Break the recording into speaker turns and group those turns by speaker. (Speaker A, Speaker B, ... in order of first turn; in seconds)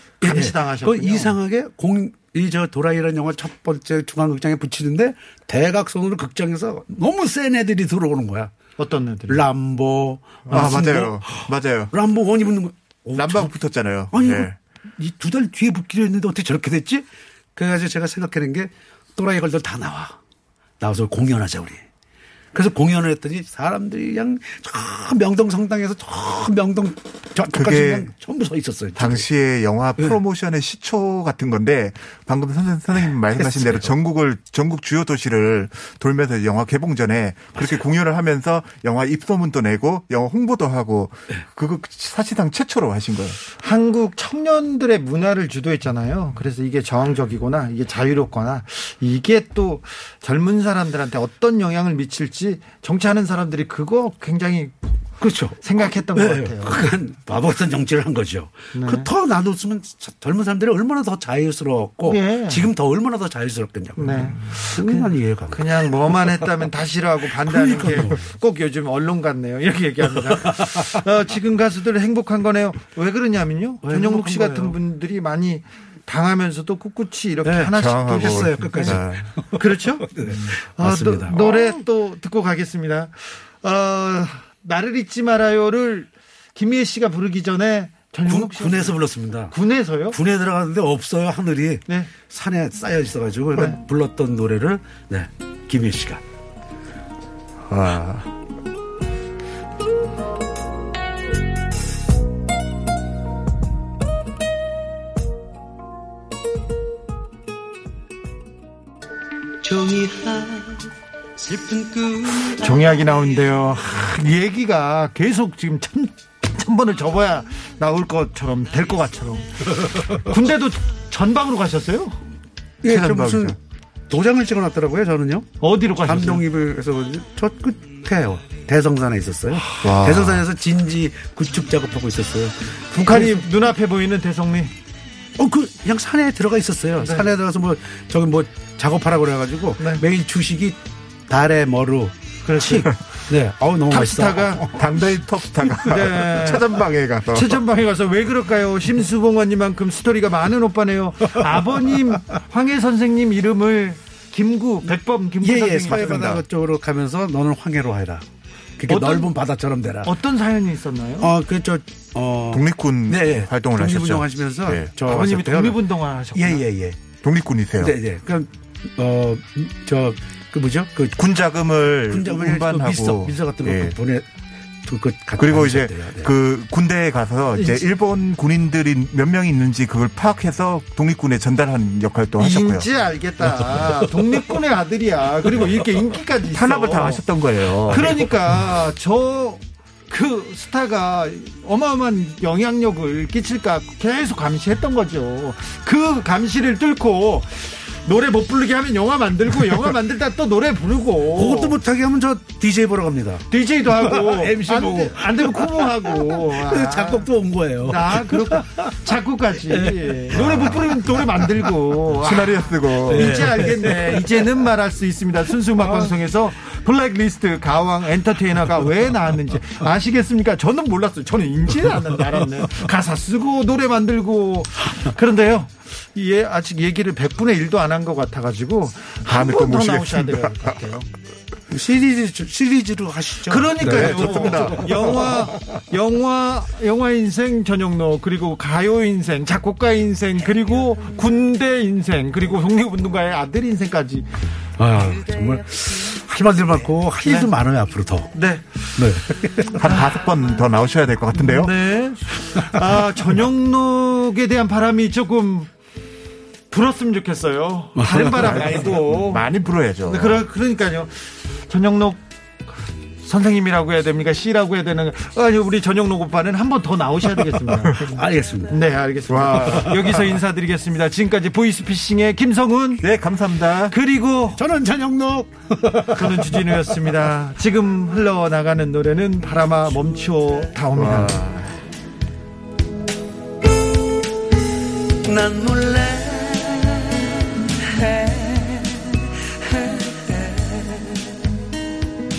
Speaker A: 0.2-1.3, 8.8-9.4, 43.6-54.7, 55.6-56.8, 58.7-59.1, 62.1-62.7, 64.0-79.0, 79.5-80.1, 80.8-89.0, 89.5-90.2, 112.6-122.2, 125.6-126.4, 133.0-134.7, 137.0-137.3, 142.4-142.9, 143.9-144.7, 145.8-146.7, 147.3-156.3, 158.9-159.3, 160.0-161.3, 165.0-166.6, 177.6-177.8, 182.4-187.2, 187.9-201.8, 203.5-207.3, 207.8-231.0, 233.5-244.3, 248.3-249.2, 251.3-255.7, 256.7-259.4, 260.1-262.2, 263.2-268.2, 268.7-273.0, 273.9-274.6, 276.1-281.4
Speaker B: 0.2-8.5, 9.3-13.6, 14.1-20.2, 20.8-21.8, 22.5-29.3, 33.4-33.9, 55.2-66.4, 67.4-68.3, 70.3-71.0, 73.8-74.8, 77.4-81.8, 88.2-89.5, 90.1-96.2, 109.6-110.8, 111.4-112.8, 119.7-120.2, 122.8-123.6, 124.1-125.5, 126.0-133.4, 135.4-144.7, 155.4-160.2, 161.2-165.8, 166.3-167.0, 167.8-171.2, 172.1-174.3, 174.8-176.3, 184.0-184.4, 185.5-185.8, 201.3-209.0, 209.7-211.7, 213.1-214.6, 215.8-216.1, 231.7-235.3, 244.8-248.3, 248.9-249.8, 252.6-252.8, 258.0-259.0, 267.9-268.8, 269.7-270.2, 274.6-276.9, 285.2-287.2, 287.8-291.1
Speaker C: 10.5-11.9, 13.2-14.5, 27.5-28.1, 29.0-43.4, 77.7-79.3, 97.7-98.3, 122.8-123.6, 129.8-130.4, 144.7-147.6, 155.9-156.4, 162.5-164.9, 167.2-167.9, 171.2-173.9, 175.4-182.9, 186.5-188.2, 212.2-213.5, 229.2-231.0, 233.8-235.1, 249.7-251.7, 258.1-260.4, 269.3-270.1, 273.0-274.0, 280.9-281.8